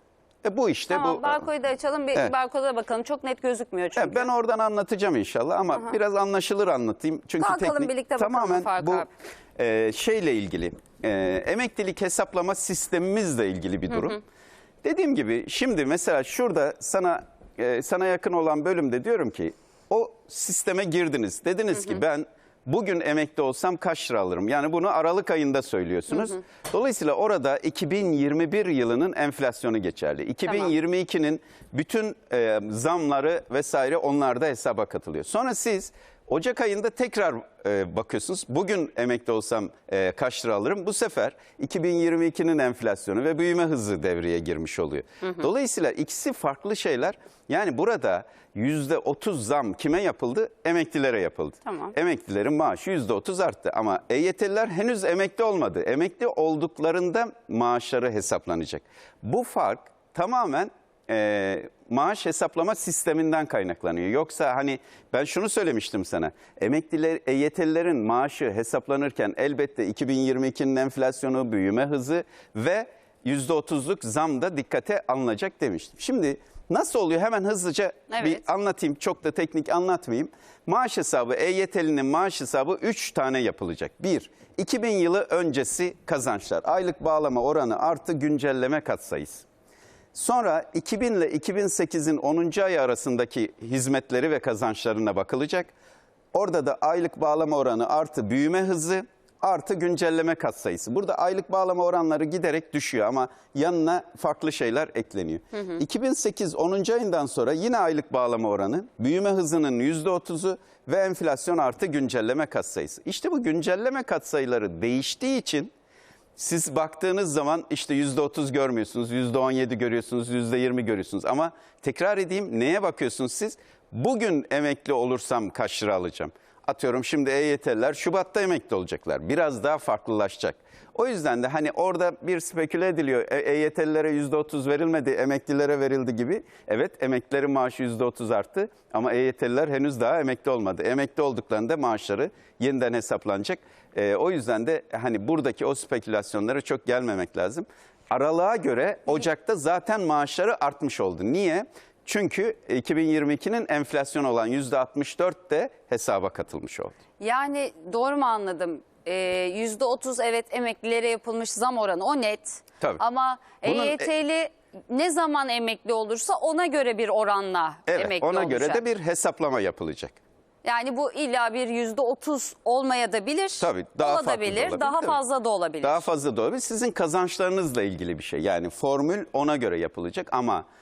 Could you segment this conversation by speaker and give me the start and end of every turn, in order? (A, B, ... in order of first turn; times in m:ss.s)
0:00.4-0:01.4 A
0:00.9-0:04.3 B
0:04.0-0:14.2 A
0:07.4-0:09.1 B
0:13.9-0:14.2 B
0:14.8-1:29.4 A
0:30.5-0:30.7 B
0:51.6-0:51.9 B
1:18.1-1:18.4 B
1:30.1-1:35.7 A
1:36.3-1:55.7 A
1:56.4-2:37.0 A
2:37.2-2:48.8 B
2:43.6-2:44.1 A
2:47.9-2:50.2 A
2:50.6-2:56.1 B
2:53.6-2:55.2 A
2:55.8-3:00.6 A